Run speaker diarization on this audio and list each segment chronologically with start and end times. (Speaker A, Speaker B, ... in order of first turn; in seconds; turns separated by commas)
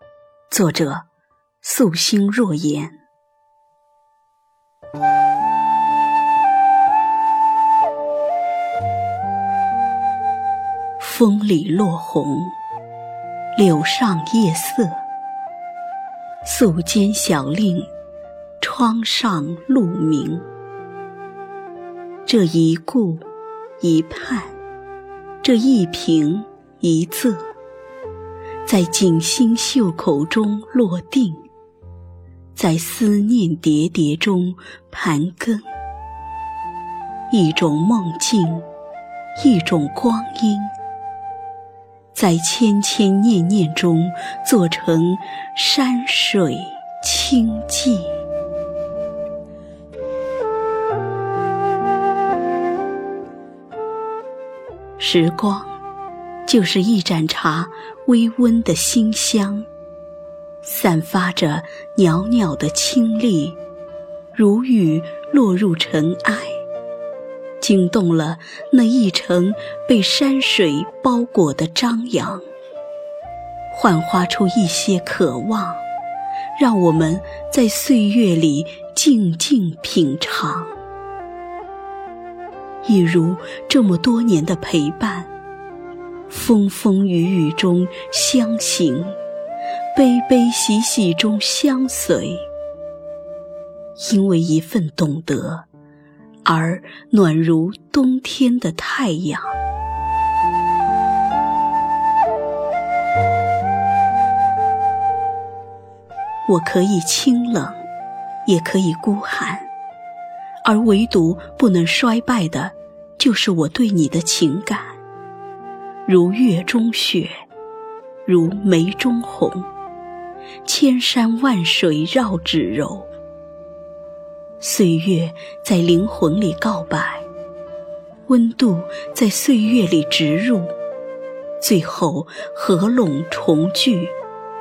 Speaker A: 0.5-1.1, Speaker A: 1.6-3.0, Speaker A: 11.0-12.5, Speaker A: 13.6-15.0, Speaker A: 16.4-17.9, Speaker A: 18.6-20.5, Speaker A: 22.2-23.2, Speaker A: 23.8-24.6, Speaker A: 25.4-27.5, Speaker A: 28.6-31.4, Speaker A: 32.5-35.7, Speaker A: 37.3-38.7, Speaker A: 39.4-40.7, Speaker A: 42.1-48.1, Speaker A: 55.0-55.7, Speaker A: 56.5-59.6, Speaker A: 60.6-63.6, Speaker A: 64.3-66.6, Speaker A: 67.6-72.4, Speaker A: 73.7-75.8, Speaker A: 76.5-80.7, Speaker A: 82.8-85.3, Speaker A: 86.3-89.2, Speaker A: 89.9-92.5, Speaker A: 94.0-95.7, Speaker A: 96.4-99.5, Speaker A: 106.5-107.8, Speaker A: 108.4-109.7, Speaker A: 110.6-115.0, Speaker A: 116.0-117.3, Speaker A: 118.2-119.7, Speaker A: 120.6-123.1, Speaker A: 124.6-127.2, Speaker A: 128.3-130.7, Speaker A: 131.6-134.1